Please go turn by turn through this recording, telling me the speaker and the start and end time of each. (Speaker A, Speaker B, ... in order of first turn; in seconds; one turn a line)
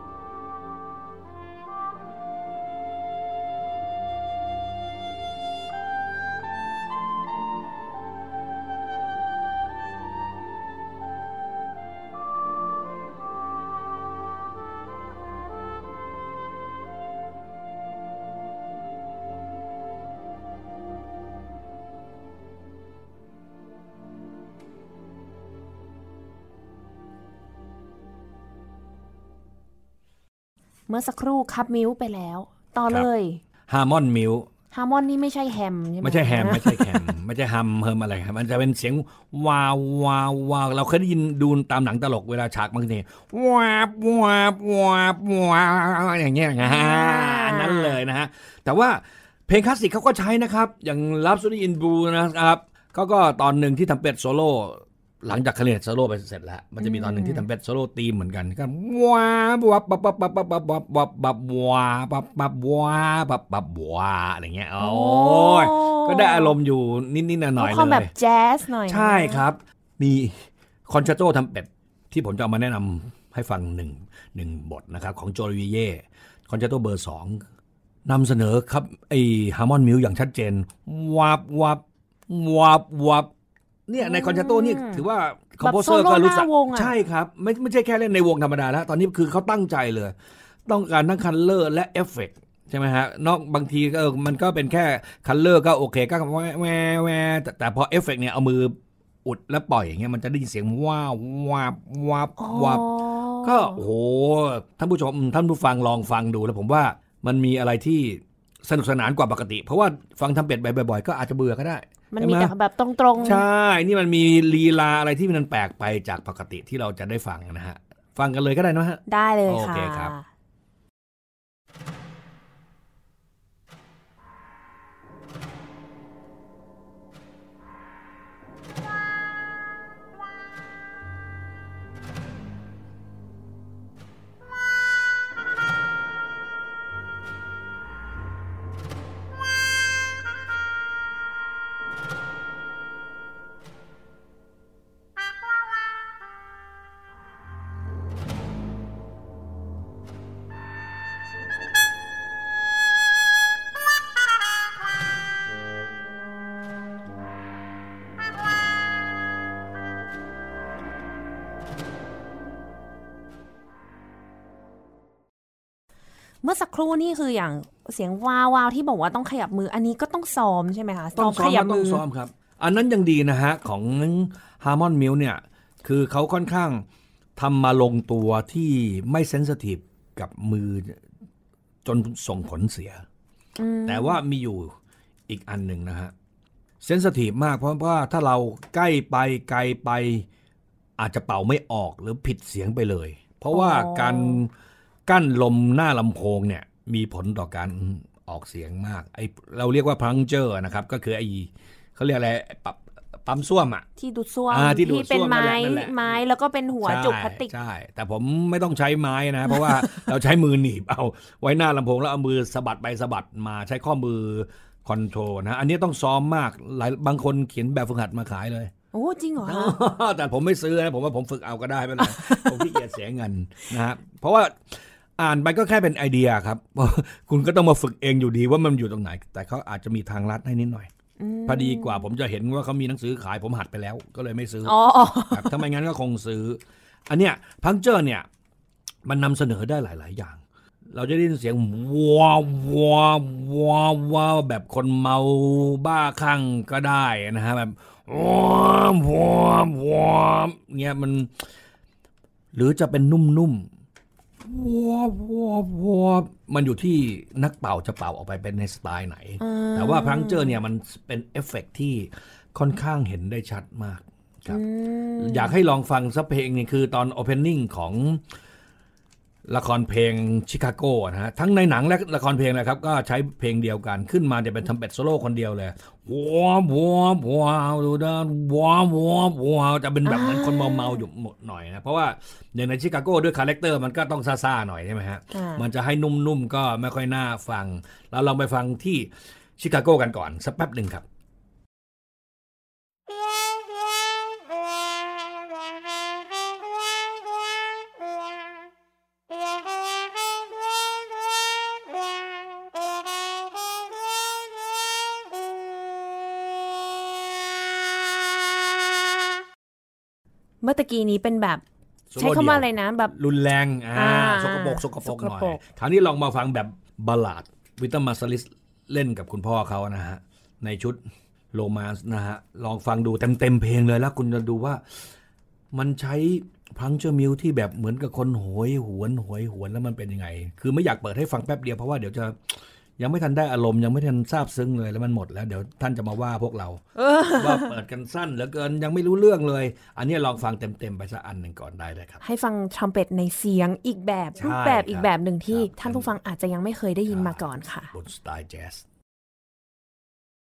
Speaker A: 30.9-33.4
Speaker B: 33.7-34.5
Speaker A: 34.7-37.1
Speaker B: 36.0-68.1
Speaker A: 46.6-48.0
Speaker A: 56.8-57.5
Speaker A: 64.8-66.5
Speaker A: 67.6-69.4
Speaker B: 68.9-77.5
Speaker B: 78.0-83.3
Speaker B: 83.9-90.1
Speaker A: 84.0-85.0
Speaker A: 85.6-86.9
Speaker B: 90.7-102.8
Speaker A: 102.4-103.8
Speaker B: 103.4-112.5
Speaker A: 112.1-113.4
Speaker B: 113.2-120.1
Speaker A: 119.1-120.2
Speaker A: 166.4-172.0
Speaker B: 171.2-176.8
Speaker B: 177.4-181.0
Speaker B: 181.8-183.0
Speaker A: 183.6-184.2
Speaker B: 183.8-184.7
Speaker B: 185.3-186.1
Speaker B: 186.8-190.2
Speaker B: 191.0-194.5
Speaker A: 193.5-194.4
Speaker B: 195.1-203.8
Speaker A: 204.0-207.5
Speaker B: 204.5-206.2
Speaker B: 206.8-218.7
Speaker A: 209.5-210.1
Speaker A: 218.9-219.8
Speaker B: 219.4-230.9
Speaker A: 222.0-222.8
Speaker A: 231.2-232.1
Speaker B: 231.5-238.3
Speaker A: 234.6-235.6
Speaker B: 239.1-240.4
Speaker B: 240.9-251.4
Speaker B: 252.5-253.7
Speaker B: 254.4-264.6
Speaker A: 259.4-260.6
Speaker A: 264.5-265.5
Speaker B: 265.2-268.2
Speaker B: 269.5-291.0
Speaker A: 280.0-281.0
Speaker A: 285.3-285.6
Speaker A: 310.6-311.6
Speaker B: 312.1-321.0
Speaker A: 312.2-313.1
Speaker A: 313.9-315.6
Speaker B: 321.5-325.1
Speaker B: 325.7-342.2
Speaker A: 336.9-337.7
Speaker A: 342.2-347.9
Speaker B: 344.4-346.1
Speaker B: 347.1-348.8